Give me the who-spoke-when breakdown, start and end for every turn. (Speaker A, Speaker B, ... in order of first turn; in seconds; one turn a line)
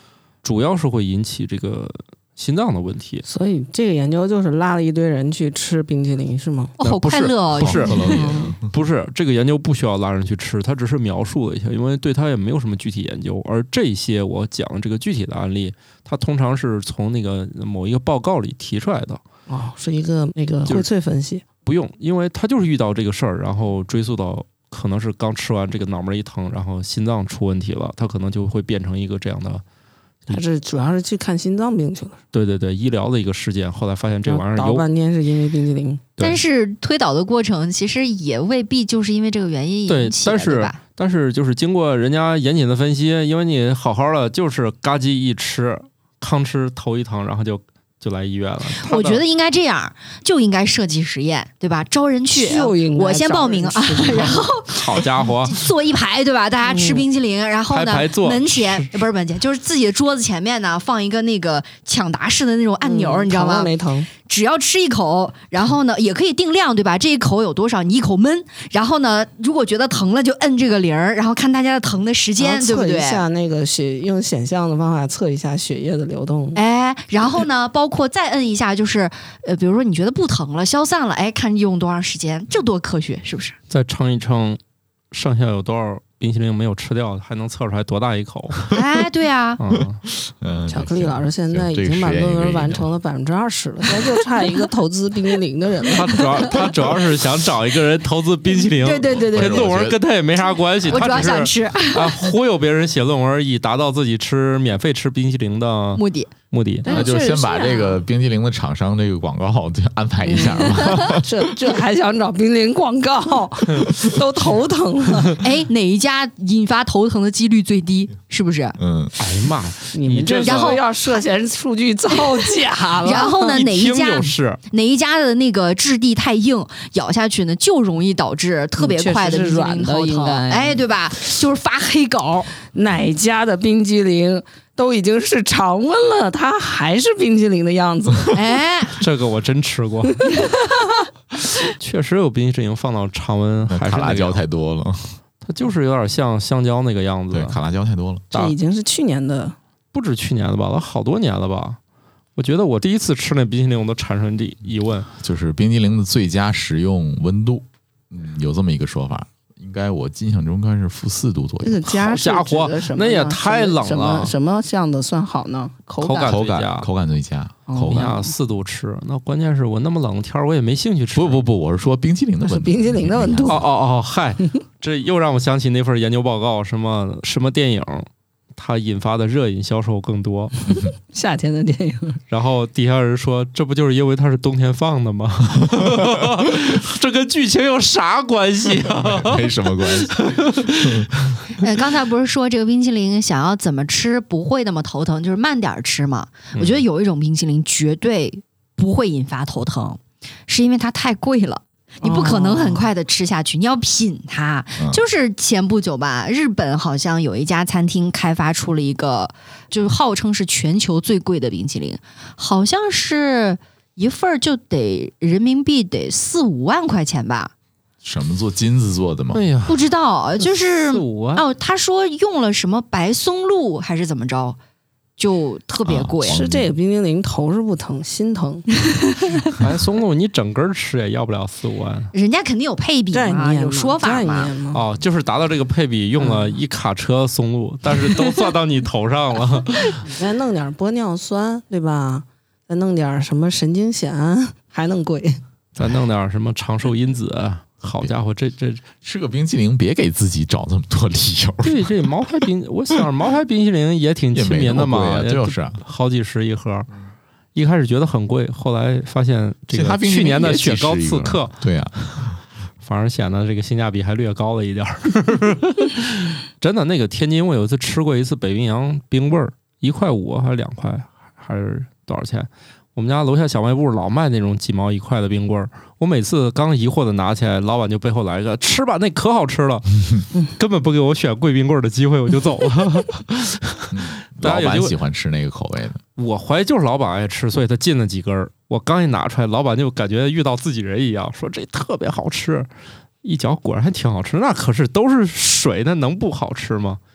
Speaker A: 0.4-3.2
Speaker B: 3.3-6.7
Speaker C: 6.8-8.2
Speaker A: 6.8-8.1
Speaker D: 7.6-8.7
Speaker B: 8.0-8.6
Speaker A: 8.7-19.2
Speaker B: 19.5-21.4
Speaker A: 21.6-29.6
Speaker B: 30.3-32.2
Speaker A: 32.3-34.9
Speaker B: 34.3-36.0
Speaker C: 36.2-40.8
Speaker A: 39.9-49.2
Speaker C: 48.8-63.7
Speaker B: 52.3-54.5
Speaker A: 54.7-55.6
Speaker B: 56.6-57.1
Speaker A: 57.7-58.9
Speaker B: 62.8-64.1
Speaker C: 64.3-73.2
Speaker B: 72.4-76.6
Speaker C: 76.5-83.6
Speaker A: 83.7-84.6
Speaker A: 85.1-88.7
Speaker C: 88.7-89.6
Speaker A: 89.6-90.0
Speaker D: 89.7-92.9
Speaker B: 90.7-96.6
Speaker A: 95.9-106.9
Speaker C: 98.8-99.7
Speaker D: 99.2-100.0
Speaker D: 100.8-101.4
Speaker C: 100.9-102.2
Speaker C: 106.0-106.3
Speaker B: 106.8-107.9
Speaker D: 106.9-111.4
Speaker C: 106.9-107.9
Speaker B: 110.3-115.4
Speaker C: 110.6-111.0
Speaker C: 115.4-118.8
Speaker D: 118.8-119.1
Speaker A: 119.2-120.8
Speaker B: 119.9-123.6
Speaker C: 120.4-120.8
Speaker C: 123.0-132.5
Speaker A: 123.5-124.6
Speaker B: 128.8-130.8
Speaker B: 132.7-138.4
Speaker C: 138.3-139.0
Speaker A: 139.0-140.3
Speaker B: 140.2-140.7
Speaker A: 141.6-144.4
Speaker D: 143.7-145.2
Speaker A: 145.4-147.6
Speaker D: 147.3-148.3
Speaker A: 148.3-148.6
Speaker B: 148.3-149.6
Speaker A: 149.9-151.8
Speaker A: 152.4-155.1
Speaker D: 155.2-161.8
Speaker B: 161.6-166.4
Speaker A: 161.9-164.3
Speaker A: 166.0-166.9
Speaker D: 166.2-168.2
Speaker B: 167.7-168.2
Speaker A: 167.9-171.4
Speaker D: 171.1-173.6
Speaker B: 172.4-173.6
Speaker A: 173.4-180.6
Speaker B: 181.1-182.2
Speaker A: 182.3-191.1
Speaker D: 189.0-190.2
Speaker D: 190.8-191.1
Speaker C: 191.5-217.5
Speaker A: 196.5-196.8
Speaker B: 202.0-202.9
Speaker D: 218.0-219.4
Speaker A: 219.3-219.8
Speaker C: 219.7-224.6
Speaker A: 220.4-221.4
Speaker C: 225.2-226.4
Speaker D: 225.8-226.8
Speaker B: 226.3-228.8
Speaker A: 229.6-232.1
Speaker C: 232.1-234.5
Speaker B: 233.1-234.8
Speaker A: 234.7-240.0
Speaker B: 236.2-236.6
Speaker B: 240.0-245.4
Speaker A: 245.8-248.8
Speaker D: 249.0-252.1
Speaker A: 251.6-256.9
Speaker D: 254.3-255.8
Speaker A: 257.6-261.6
Speaker D: 259.7-262.4
Speaker A: 262.8-285.0
Speaker D: 283.9-286.0
Speaker A: 286.2-292.7
Speaker A: 293.2-297.0